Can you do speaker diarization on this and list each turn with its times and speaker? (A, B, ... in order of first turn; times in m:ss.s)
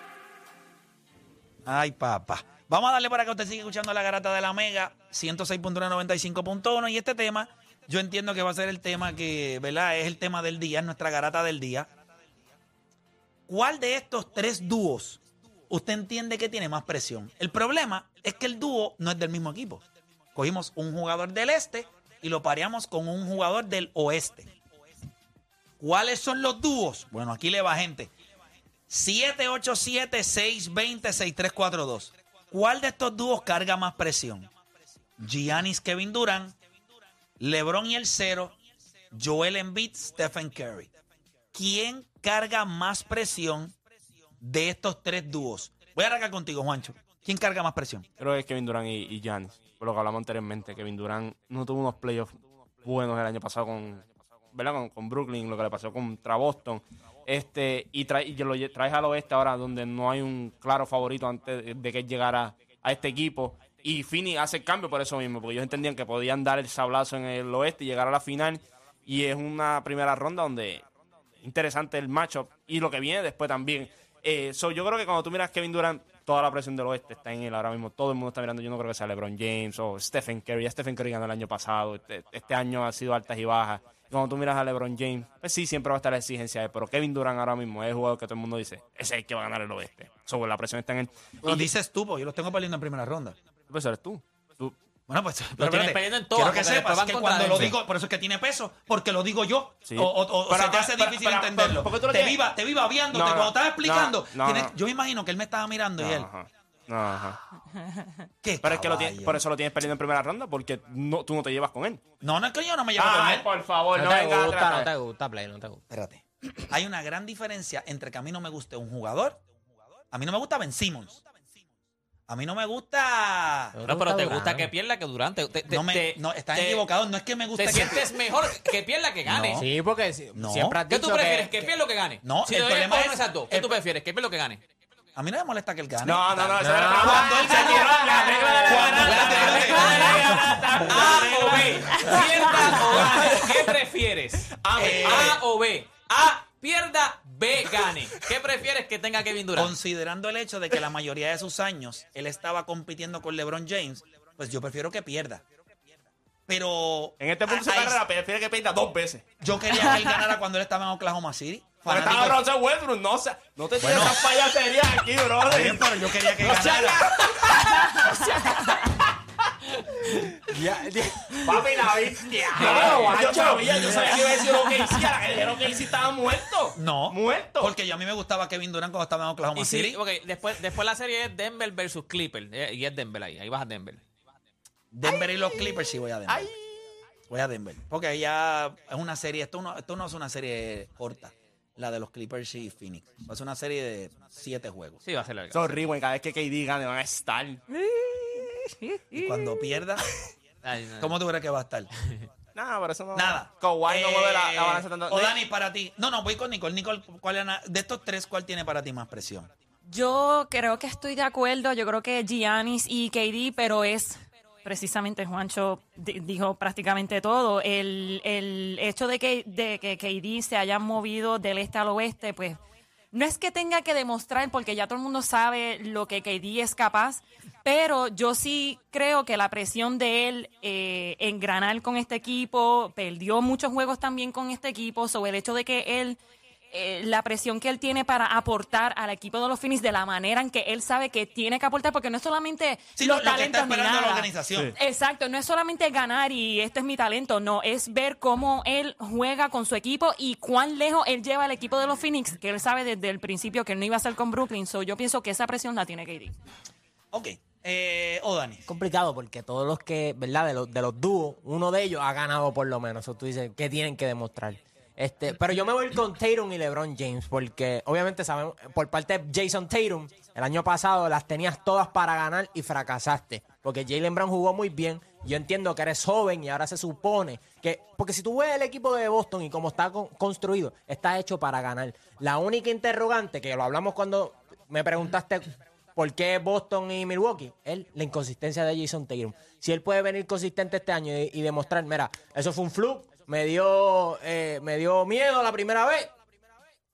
0:01.7-0:11.9 A
0:13.5-0:19.8 A
0:20.4-0:24.5 A
0:25.8-0:28.1 A
0:28.9-0:34.5 A
0:35.2-0:36.6 A
0:37.4-0:38.6 A
0:39.1-0:40.9 A
0:41.5-0:43.8 A
0:44.4-0:48.1 A
0:48.2-1:10.8 B
1:11.4-1:31.7 B
1:31.4-1:33.4 A
1:33.7-1:34.8 B
1:35.1-1:46.3 A
1:35.6-1:37.8 C
1:39.9-1:42.4 B
1:43.1-1:44.7 B
1:46.0-1:47.4 B
1:48.4-1:49.5 A
1:48.6-1:52.0 B
1:52.2-1:53.5 A
1:53.0-1:54.9 B
1:54.0-1:55.8 D
1:55.9-1:59.4 A
2:00.1-2:01.2 A
2:02.3-2:03.8 A
2:03.7-2:04.7 D
2:03.9-2:06.8 C
2:05.7-2:08.1 A
2:07.6-2:09.6 C
2:09.3-2:09.7 A
2:09.6-2:11.7 D
2:10.4-2:10.8 A
2:10.9-2:14.6 C
2:12.2-2:13.8 A
2:15.2-2:23.6 A
2:16.0-2:21.9 B
2:16.6-2:20.4 D
2:18.8-2:29.7 C
2:22.9-2:23.5 B
2:24.5-2:25.4 B
2:24.7-2:25.4 A
2:29.6-2:35.4 A
2:36.5-2:38.0 A
2:37.2-2:39.2 B
2:39.4-2:42.4 A
2:41.9-2:48.4 B
2:43.8-2:44.3 A
2:45.4-2:47.1 A
2:46.6-2:47.6 C
2:48.0-2:48.8 E
2:50.5-2:54.5 D
2:51.4-2:57.7 B
2:53.7-2:54.1 A
2:56.8-3:00.0 A
2:59.6-3:04.0 C
3:04.9-3:06.5 A
3:06.3-3:06.8 B
3:07.3-3:15.0 A
3:15.0-3:15.6 C
3:15.5-3:17.6 B
3:19.1-3:20.1 A
3:20.6-3:21.1 C
3:20.9-3:21.9 A
3:22.6-3:25.4 B
3:23.1-3:29.5 A
3:29.9-3:42.6 E
3:43.1-3:56.2 E
3:56.7-4:16.4 E
4:03.0-4:04.7 A
4:17.1-4:18.7 A
4:18.7-4:56.1 D